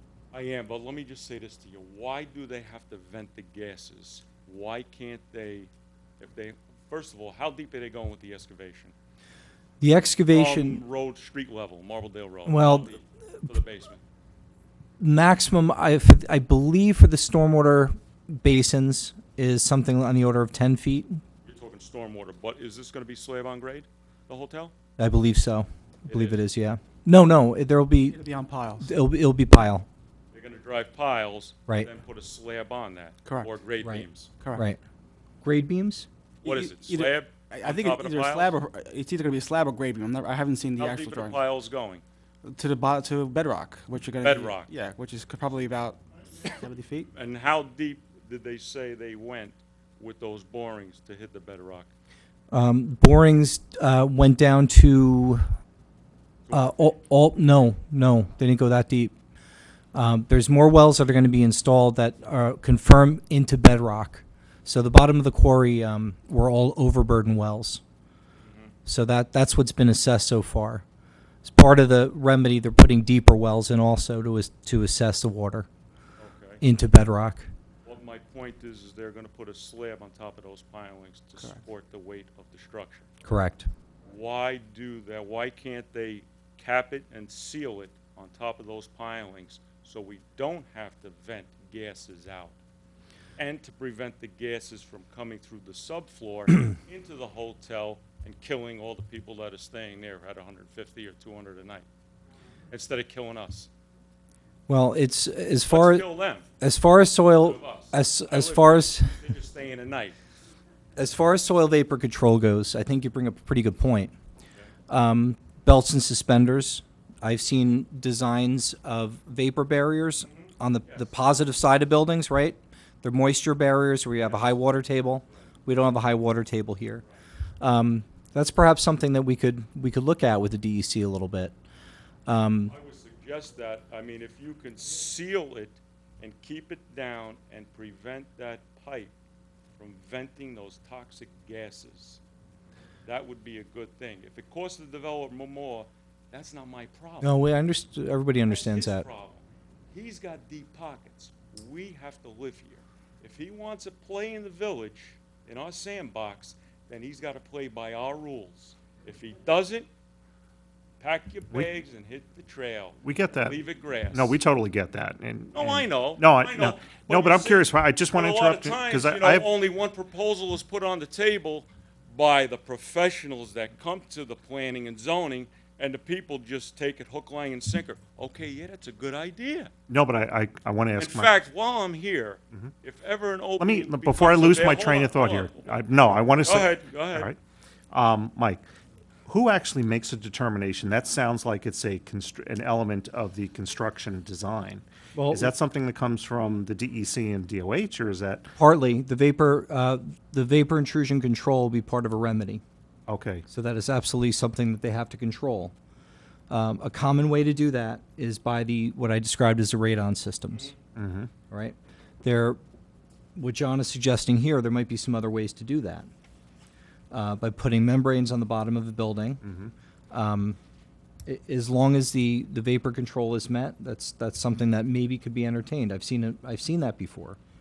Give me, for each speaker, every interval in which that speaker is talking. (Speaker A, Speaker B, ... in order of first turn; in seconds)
Speaker A: 0.3-8.9, 10.3-14.0, 21.4-24.7, 26.1-26.4, 30.3-34.3, 36.4-38.5, 40.8-42.0, 44.2-44.7, 47.1-51.9, 56.5-57.0, 68.4-68.7, 76.2-76.6, 77.8-83.1, 84.0-92.5, 93.4-101.8, 102.7-103.7, 105.7-106.5, 107.4-110.2, 120.3-121.1, 124.2-124.6, 132.7-139.1, 139.8-142.2, 143.0-147.3, 148.4-159.9, 161.0-164.4, 165.5-179.7, 181.0-187.3
Speaker B: 9.8-10.8, 12.4-12.9, 15.0-21.2, 25.0-28.2, 28.8-29.9, 33.8-34.8, 35.4-36.1, 52.5-55.4, 56.5-59.1, 59.9-67.8, 68.8-70.8, 71.4-75.7, 76.6-77.5, 83.2-83.7, 104.7-106.0, 106.6-109.2, 111.0-114.1, 114.9-127.0, 127.6-131.5, 132.3-132.7, 147.2-149.0, 195.2-195.5, 198.6-202.6, 203.5-205.7, 206.5-210.7, 211.5-212.6, 213.3-216.1, 217.1-219.4, 220.1-220.6, 221.2-227.4
Speaker C: 28.1-28.9, 33.2-33.5, 34.4-34.6, 36.4-41.4, 42.4-47.1
Speaker D: 163.0-169.5, 179.9-181.3, 183.6-187.4, 187.9-188.6, 189.2-198.5, 203.1-203.4, 210.9-211.3, 219.4-219.7